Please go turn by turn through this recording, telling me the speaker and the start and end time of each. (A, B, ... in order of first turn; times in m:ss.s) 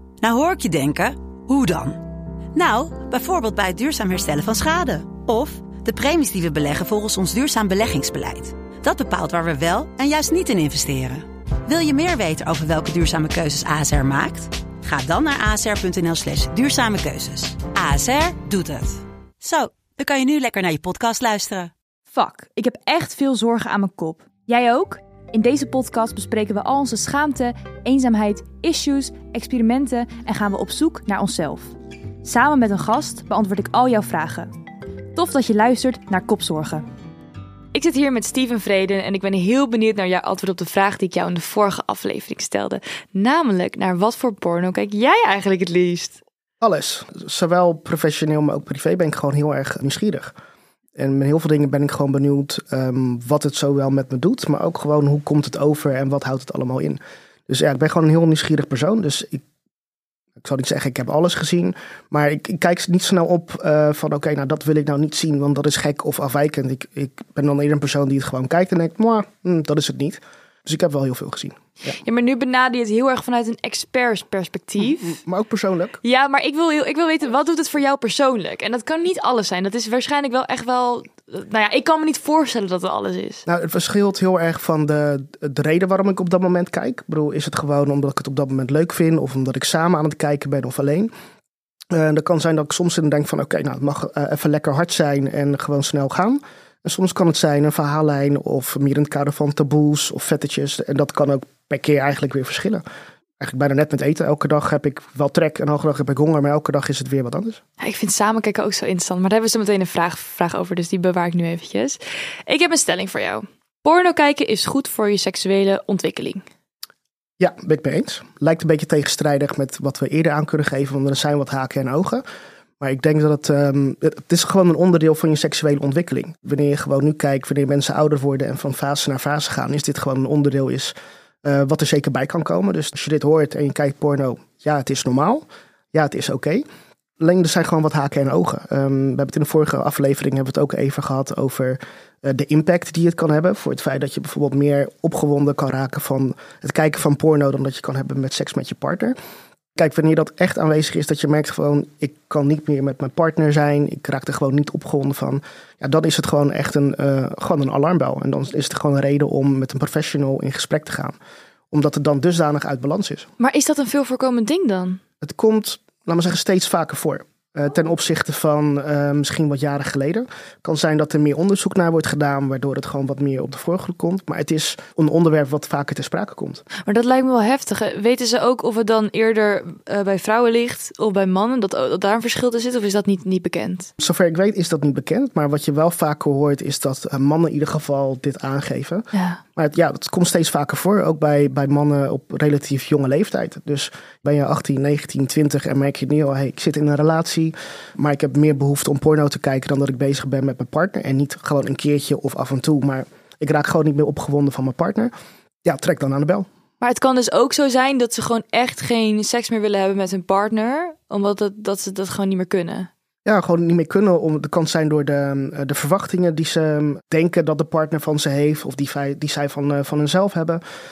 0:00.2-0:02.0 A
0:02.5-0:21.7 A
0:22.1-0:34.5 B
0:35.1-0:36.8 B
0:37.7-0:46.2 B
0:46.6-0:50.3 C
0:51.0-0:59.4 C
1:00.4-1:11.9 C
1:11.9-1:15.2 B
1:14.8-1:16.0 C
1:16.0-1:23.4 B
1:23.5-1:31.1 C
1:31.9-1:42.8 C
1:43.4-1:47.6 C
1:47.8-1:56.4 B
1:57.4-2:02.2 C
2:02.8-2:16.6 C
2:17.2-2:29.2 C
2:29.8-2:41.2 C
2:41.7-2:43.3 C
2:43.4-2:45.0 B
2:45.2-2:56.6 C
2:56.8-3:03.9 B
3:04.0-3:25.1 C
3:09.1-3:09.4 B
3:25.6-3:26.5 C
3:26.8-3:32.9 B
3:33.2-3:40.6 C